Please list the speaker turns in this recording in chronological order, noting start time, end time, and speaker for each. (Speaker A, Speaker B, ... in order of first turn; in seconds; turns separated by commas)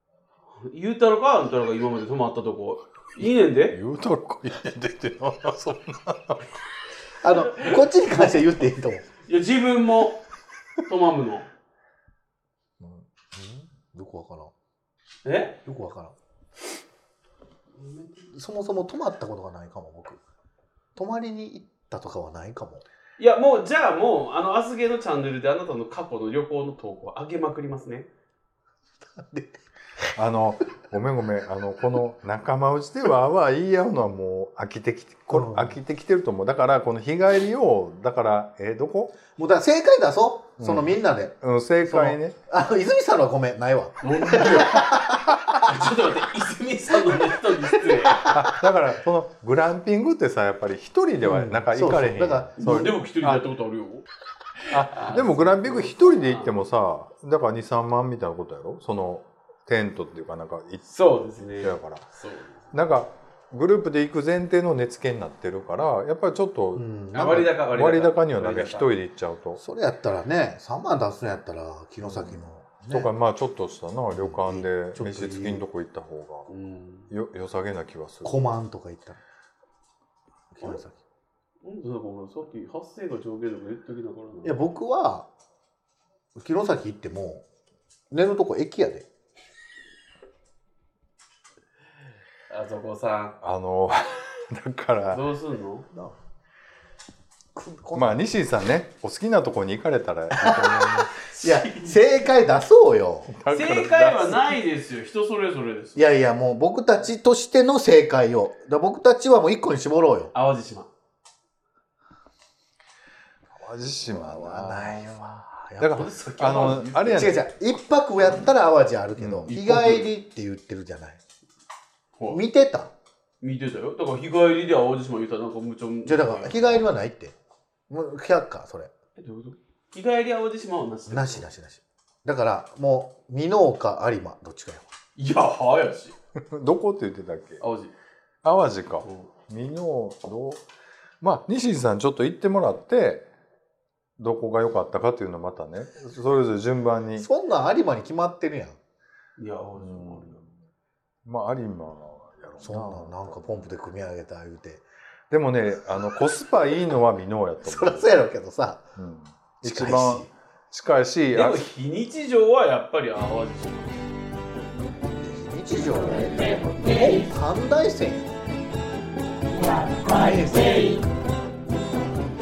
Speaker A: 0.6-3.8, Speaker B: 3.7-6.5, Speaker C: 7.2-9.0, Speaker A: 7.3-7.8, Speaker A: 9.2-10.2, Speaker A: 10.9-11.5, Speaker C: 12.8-14.5, Speaker A: 15.2-15.6, Speaker C: 15.7-16.1, Speaker A: 17.8-18.3, Speaker C: 18.3-20.2, Speaker C: 20.9-22.9, Speaker A: 23.2-28.1, Speaker C: 29.0-29.6, Speaker B: 30.1-39.2, Speaker C: 35.3-35.8, Speaker C: 39.3-45.9, Speaker B: 40.6-42.4, Speaker A: 44.0-45.0, Speaker A: 45.6-48.3, Speaker C: 46.9-48.2, Speaker B: 48.2-53.5, Speaker C: 51.2-52.6, Speaker A: 52.6-54.1, Speaker A: 54.6-56.5, Speaker B: 54.7-60.9, Speaker A: 60.9-62.8, Speaker B: 61.6-62.1, Speaker B: 62.7-66.9, Speaker C: 66.8-67.5, Speaker A: 67.1-68.9, Speaker B: 67.5-69.6, Speaker C: 69.6-73.1, Speaker B: 72.0-76.5, Speaker C: 74.1-75.7, Speaker A: 76.5-77.1, Speaker B: 77.1-78.5, Speaker C: 78.2-79.2, Speaker C: 80.5-81.0, Speaker A: 81.6-84.6, Speaker C: 84.4-85.3, Speaker C: 86.3-87.5, Speaker C: 88.1-89.1, Speaker A: 92.5-93.4, Speaker B: 93.4-95.2, Speaker A: 95.1-95.9, Speaker C: 95.9-96.2, Speaker C: 97.5-98.2, Speaker B: 97.9-101.1, Speaker C: 100.3-103.3, Speaker A: 101.3-102.0, Speaker B: 103.3-104.6, Speaker A: 103.5-106.1, Speaker C: 106.0-110.3, Speaker A: 110.3-110.9, Speaker B: 113.6-117.4, Speaker C: 114.1-116.1, Speaker A: 115.9-117.4, Speaker C: 117.1-121.2, Speaker B: 119.2-119.5, Speaker A: 119.5-120.1, Speaker C: 122.3-122.9, Speaker A: 123.4-126.8, Speaker C: 126.0-127.4, Speaker C: 127.9-128.9, Speaker A: 129.2-131.5, Speaker C: 131.1-134.9, Speaker A: 135.2-136.2, Speaker B: 136.5-137.6, Speaker A: 137.6-137.9, Speaker B: 138.4-140.6, Speaker A: 139.0-139.3, Speaker B: 141.2-143.3, Speaker B: 144.2-147.3, Speaker C: 147.2-148.8, Speaker A: 149.4-150.4, Speaker B: 149.8-150.5, Speaker B: 151.2-153.7, Speaker C: 152.6-154.8, Speaker B: 155.3-158.2, Speaker C: 157.6-158.9, Speaker B: 159.0-161.7, Speaker C: 159.6-160.3, Speaker A: 161.3-164.0, Speaker C: 165.2-168.3, Speaker C: 169.8-171.0